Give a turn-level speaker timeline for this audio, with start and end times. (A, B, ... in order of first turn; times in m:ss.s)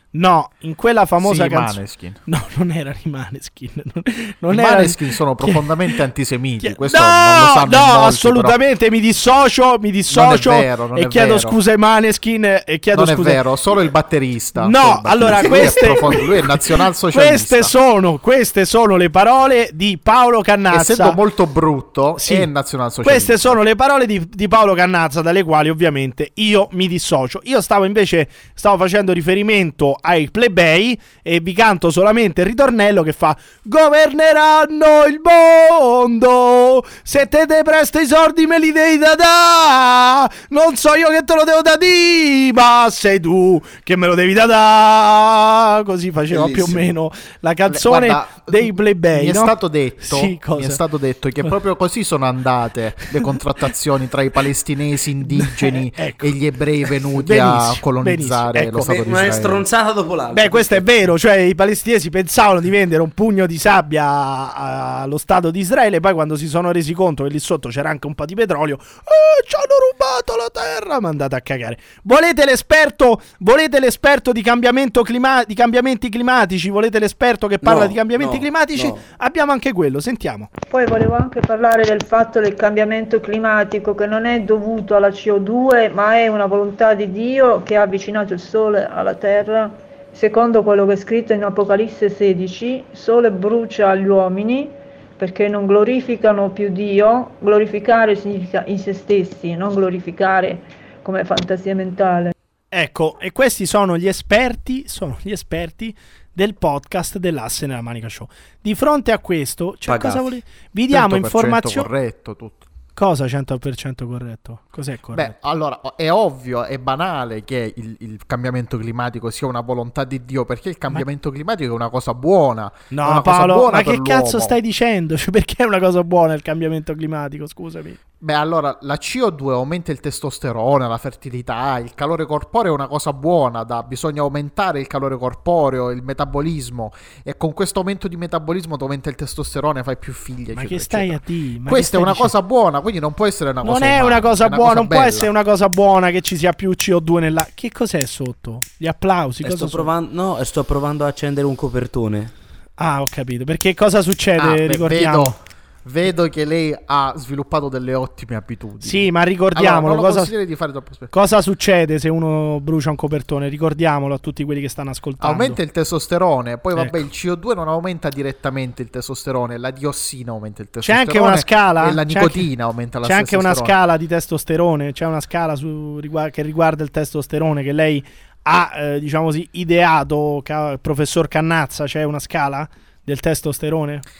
0:00.1-0:06.0 A
0:01.2-0:02.2 B
0:04.5-0:08.6 B
0:06.6-0:13.4 A
0:10.1-0:11.6 B
0:12.9-0:17.7 B
0:14.6-0:16.4 A
0:17.1-0:21.2 A
0:20.7-0:23.6 B
0:22.2-0:22.5 A
0:23.0-0:50.8 A
0:46.3-0:46.9 C
0:47.7-0:59.7 B
0:55.4-0:56.3 A
0:56.9-0:58.9 A
0:58.9-1:01.0 C
1:00.3-1:20.5 A
1:17.6-1:19.0 C
1:20.7-1:42.3 D
1:42.7-1:51.9 A
1:49.9-1:50.3 C
1:50.9-1:52.6 B
1:53.0-1:55.3 A
1:55.1-2:04.6 B
2:02.9-2:08.0 A
2:08.2-2:25.3 B
2:20.5-2:22.3 A
2:23.6-2:29.9 A
2:29.4-2:32.3 C
2:32.8-2:35.4 A
2:34.4-2:41.1 B
2:38.8-2:40.3 A
2:41.1-2:45.6 A
2:45.2-2:53.8 B
2:46.8-2:47.0 A
2:50.8-2:52.5 A
2:53.0-3:04.0 A